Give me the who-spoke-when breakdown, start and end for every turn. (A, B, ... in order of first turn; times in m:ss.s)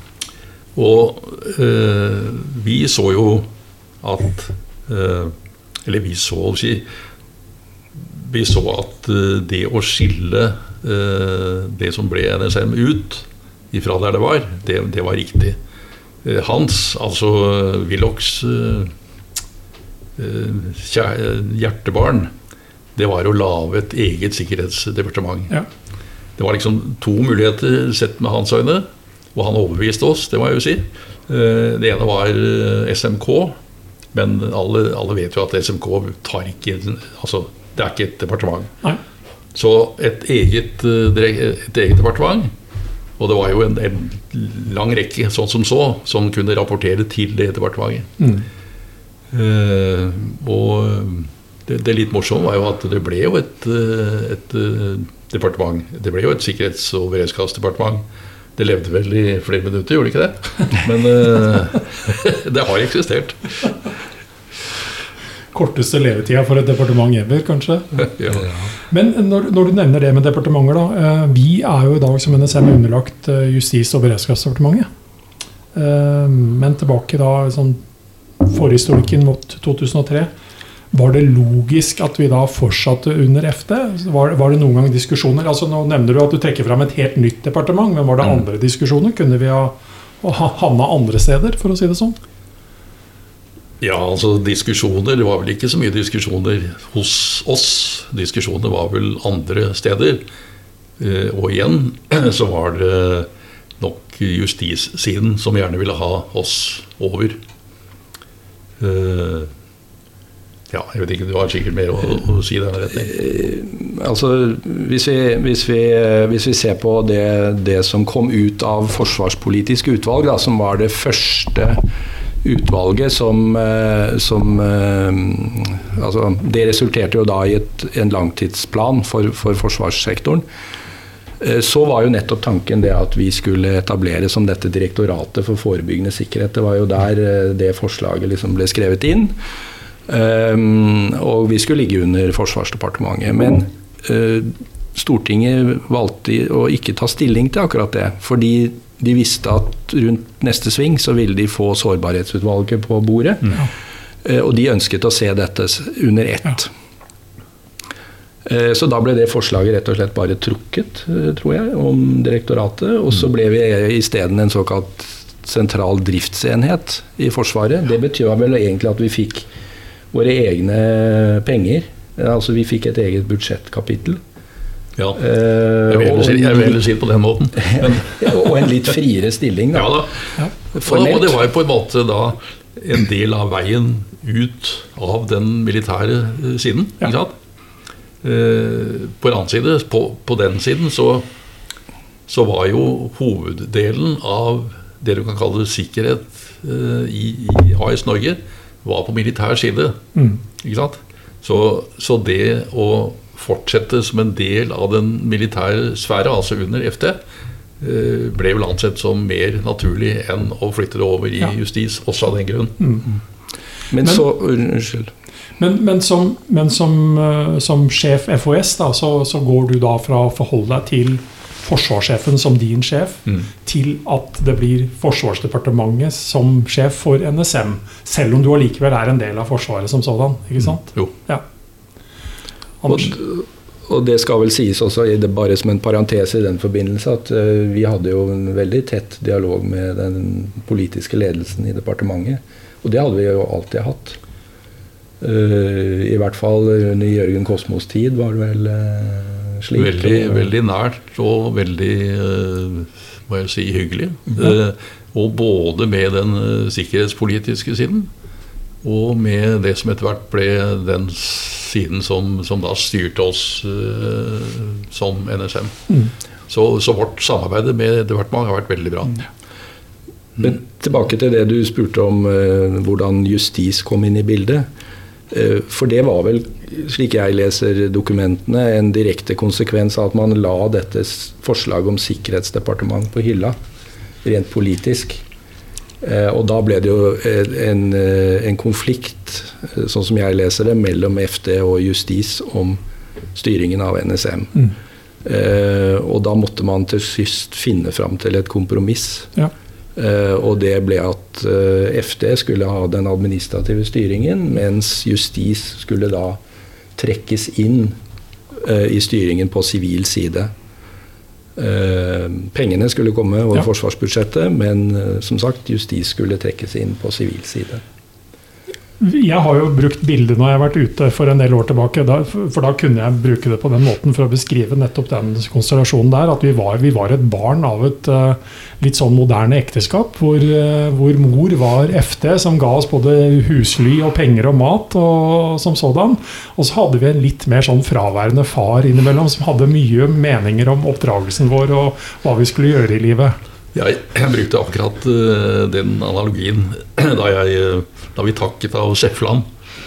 0:00.7-0:03.5 A
0:04.0-0:06.8 A
0:08.0-0:15.6 A
0:16.2-0:18.9 A
0:20.2-0:22.3 A
0:23.0-0:25.5 A
0:26.4-0:33.6 A
0:34.1-0:38.8 A
0:39.5-0:42.5 A
0:43.2-0:48.1 A
0:48.2-0:48.4 B
0:49.3-0:58.0 A
0:58.6-1:03.7 A
1:05.5-1:08.1 B
1:08.2-1:08.4 A
1:08.9-1:14.9 B
1:15.7-1:17.8 B
1:18.4-1:20.3 B
1:20.9-1:32.2 B
1:33.8-1:40.2 A
1:41.0-1:47.4 A
1:48.8-1:49.5 A
1:50.7-1:53.1 A
1:53.0-2:01.8 C
2:02.4-2:10.4 C
2:11.4-2:19.4 C
2:20.1-2:33.6 C
2:34.2-2:36.7 C
2:38.4-2:49.5 C
2:50.1-2:54.2 C
2:55.0-2:55.2 A
2:55.2-2:56.8 C
2:55.9-2:58.7 A
2:57.6-3:00.0 C
2:59.7-3:07.3 A
3:00.8-3:01.4 C
3:08.2-3:11.2 A
3:12.3-3:20.0 A
3:20.2-3:20.4 B
3:20.6-3:27.2 A
3:27.8-3:32.8 A
3:32.8-3:33.0 B
3:33.9-3:35.1 C
3:35.6-3:51.4 B
3:50.8-3:51.1 A
3:52.8-3:53.1 B
3:52.9-4:04.2 C
4:05.2-4:10.5 C
4:09.8-4:18.1 A
4:18.8-4:25.9 A
4:26.5-4:29.2 A
4:30.4-4:34.7 C
4:35.3-4:43.6 C
4:44.2-4:45.2 C
4:46.0-4:52.8 C
4:53.3-4:54.7 C
4:55.2-4:59.3 C
5:00.0-5:06.4 C
5:07.0-5:08.0 C
5:08.5-5:10.5 C
5:11.6-5:17.8 C
5:19.0-5:43.4 B
5:43.7-5:49.5 A